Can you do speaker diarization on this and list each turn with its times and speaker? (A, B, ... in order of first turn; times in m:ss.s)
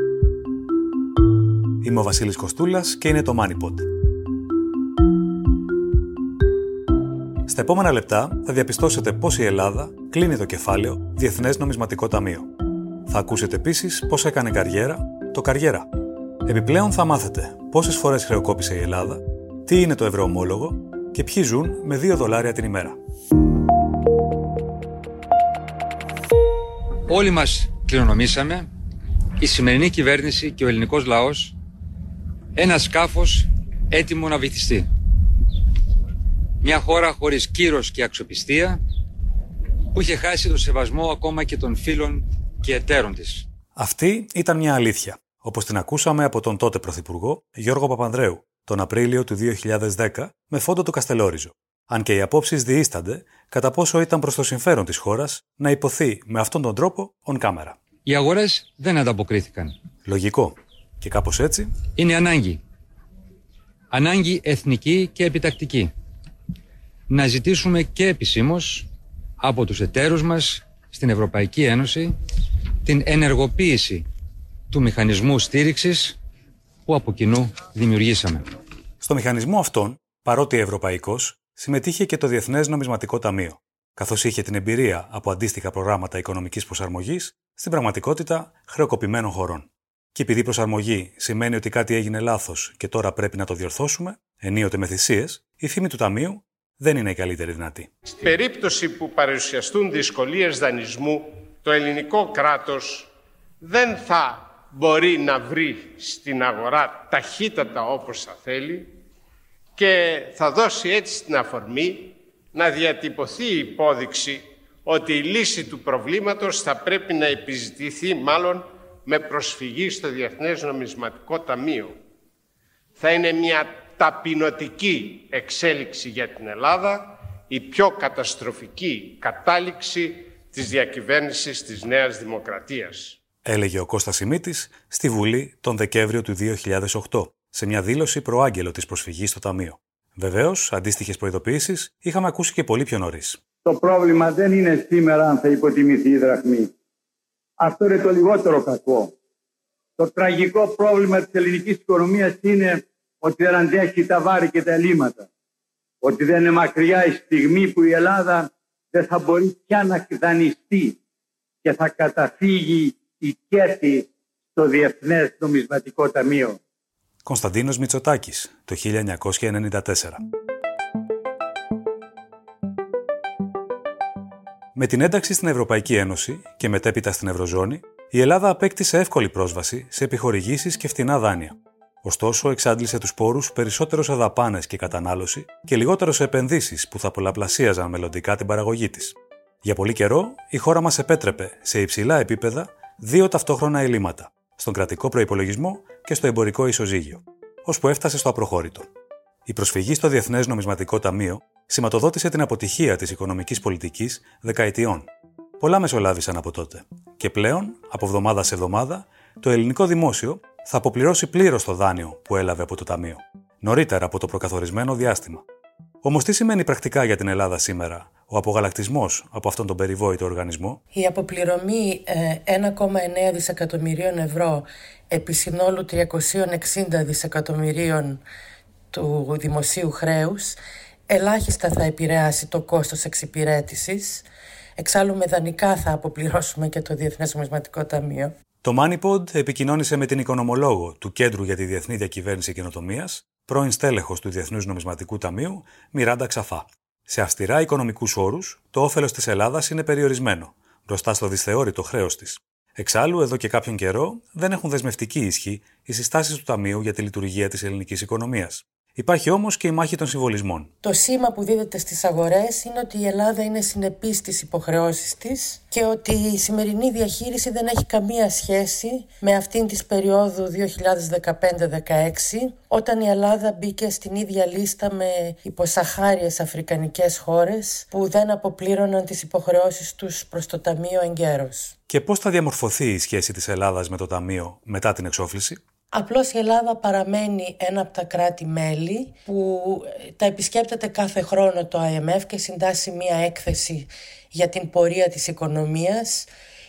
0:01.8-0:03.9 A
0:07.5-0:12.5 A
0:13.1-0:15.9 A
0:16.5-0:23.0 A
0:27.1-0:28.7 B
0:29.4-0:31.6 B
0:32.6-0:34.9 B
0:36.6-0:38.8 B
0:39.9-0:43.5 B
0:43.8-0:57.8 A
0:58.0-0:59.7 B
1:00.0-1:01.8 A
1:02.0-1:02.6 B
1:03.9-1:05.9 B
1:07.1-1:08.9 B
1:09.4-1:12.1 B
1:12.8-1:14.0 B
1:14.7-1:16.2 B
1:16.9-1:18.4 B
1:19.0-1:37.9 A
1:38.1-1:43.1 C
1:43.6-1:48.9 C
1:49.8-2:02.0 C
2:03.0-2:13.2 C
2:13.4-2:23.4 A
2:23.6-2:26.7 D
2:27.6-2:29.1 D
2:30.0-2:35.3 D
2:36.0-2:41.0 D
2:41.6-2:46.6 D
2:47.2-2:50.2 A
2:54.8-3:18.9 A
3:19.5-3:25.1 A
3:25.6-3:35.4 A
3:36.0-3:40.8 A
3:40.9-3:48.2 E
3:48.9-3:50.6 E
3:51.1-3:54.2 E
3:54.8-3:58.3 E
3:58.6-4:20.7 A
4:20.8-4:41.7 E
4:41.9-4:45.6 A
4:45.9-4:56.3 E